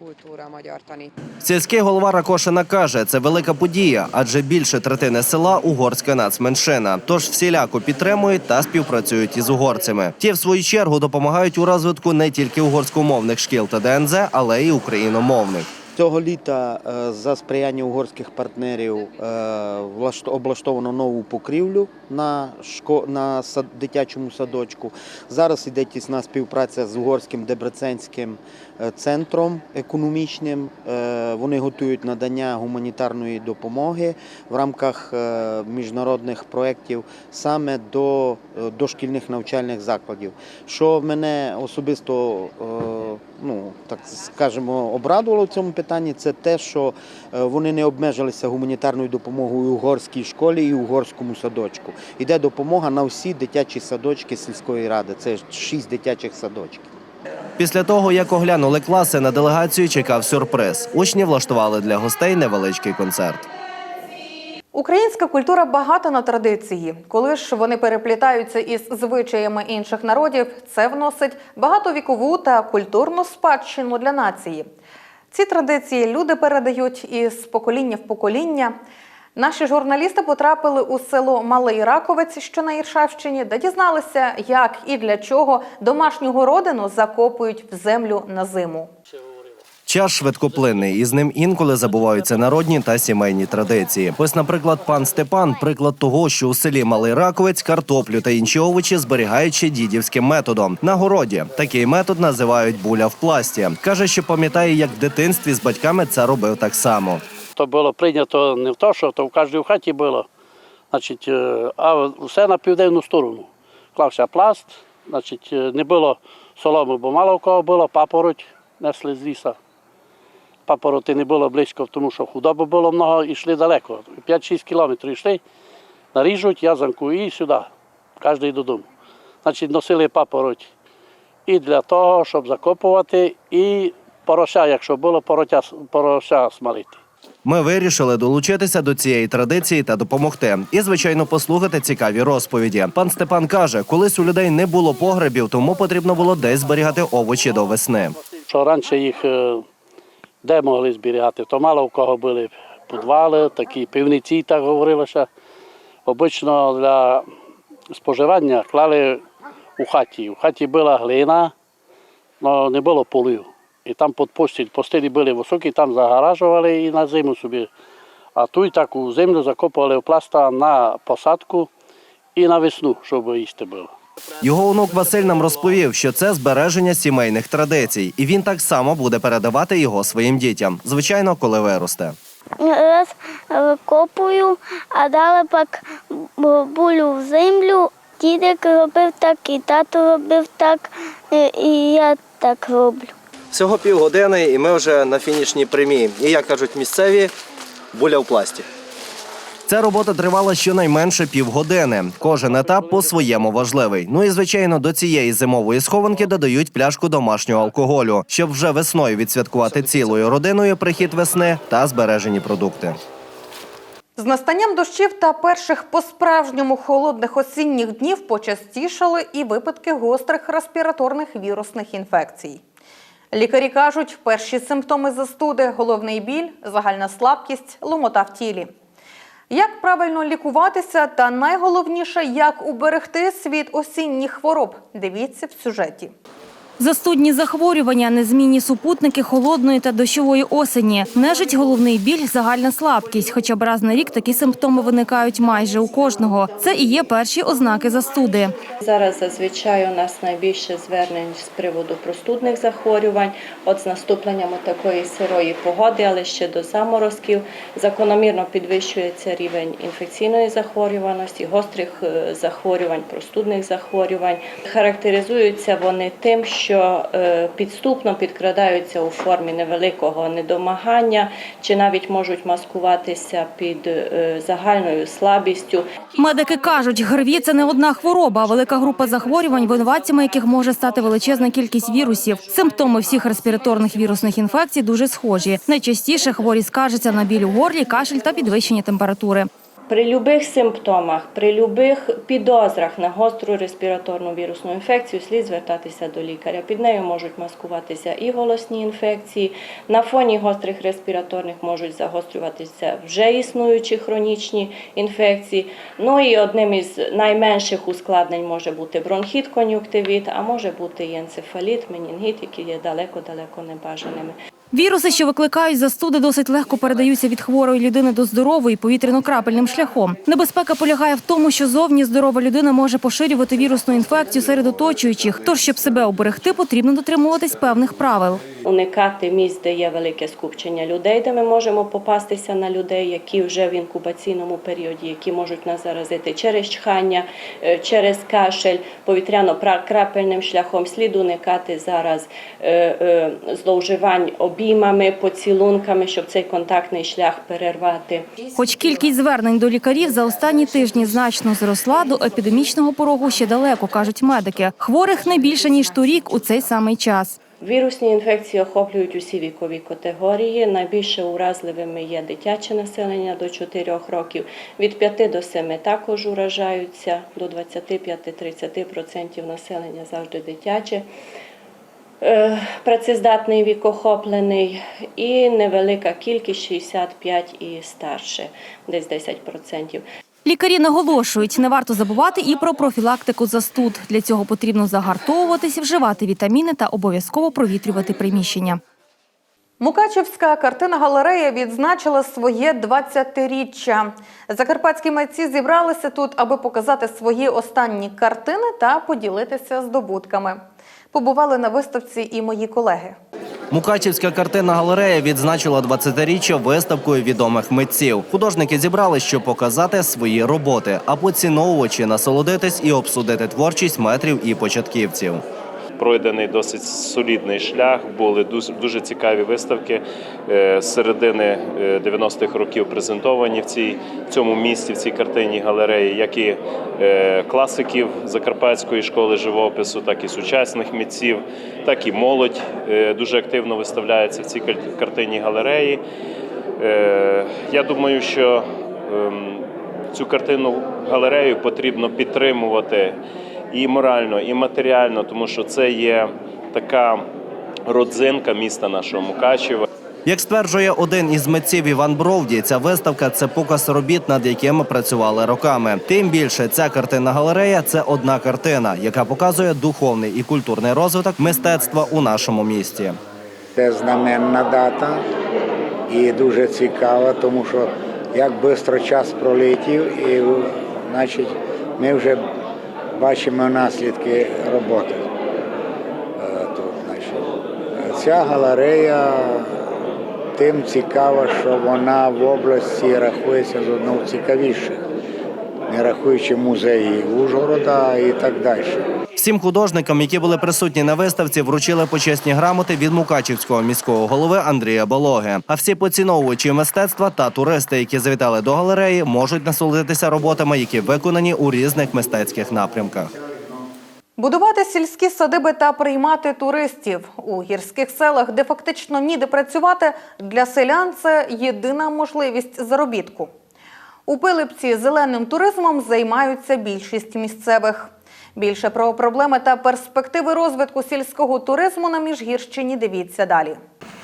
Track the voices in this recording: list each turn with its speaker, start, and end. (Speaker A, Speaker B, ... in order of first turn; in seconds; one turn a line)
Speaker A: 1.4-15.7
Speaker B: 15.9-56.9
Speaker A: 57.6-63.5
Speaker C: 64.7-74.7
Speaker C: 75.3-78.8
Speaker C: 79.3-88.9
Speaker A: 89.9-107.2
Speaker D: 107.5-110.3
Speaker D: 110.9-119.6
Speaker D: 120.7-125.4
Speaker D: 126.1-127.7
Speaker D: 128.2-128.8
Speaker D: 129.4-130.7
Speaker D: 131.4-137.0
Speaker A: 137.4-148.2
Speaker D: 148.4-149.6
Speaker D: 150.4-155.3
Speaker D: 156.1-157.2
Speaker D: 157.9-159.2
Speaker D: 159.8-161.5
Speaker D: 162.4-167.7
Speaker D: 168.3-171.7
Speaker D: 172.3-173.9
Speaker A: 174.4-182.2
Speaker E: 182.6-193.1
Speaker A: 193.5-197.3
Speaker A: 197.9-198.7
Speaker A: 199.7-213.0
Speaker C: 214.2-222.6
Speaker C: 223.3-228.7
Speaker C: 229.5-236.1
Speaker F: 236.8-248.5
Speaker G: 248.8-275.9
Speaker F: 276.1-289.5
Speaker G: 289.9-314.4
Speaker F: 314.7-328.4
Speaker G: 328.6-348.3
Speaker F: 348.5-357.4
Speaker G: 357.6-371.1
Speaker G: 372.2-380.0
Speaker F: 380.4-388.8
Speaker C: 389.8-400.6
Speaker C: 401.1-403.2
Speaker A: 403.7-415.4
Speaker H: 416.0-436.0
Speaker H: 436.8-443.2
Speaker H: 443.7-447.3
Speaker H: 447.9-449.9
Speaker A: 450.2-463.2
Speaker I: 463.8-465.2
Speaker I: 466.1-472.4
Speaker I: 473.1-475.3
Speaker I: 476.4-479.8
Speaker I: 480.5-485.0
Speaker I: 485.9-489.0
Speaker A: 489.4-503.3
Speaker C: 504.4-513.5
Speaker C: 514.3-523.8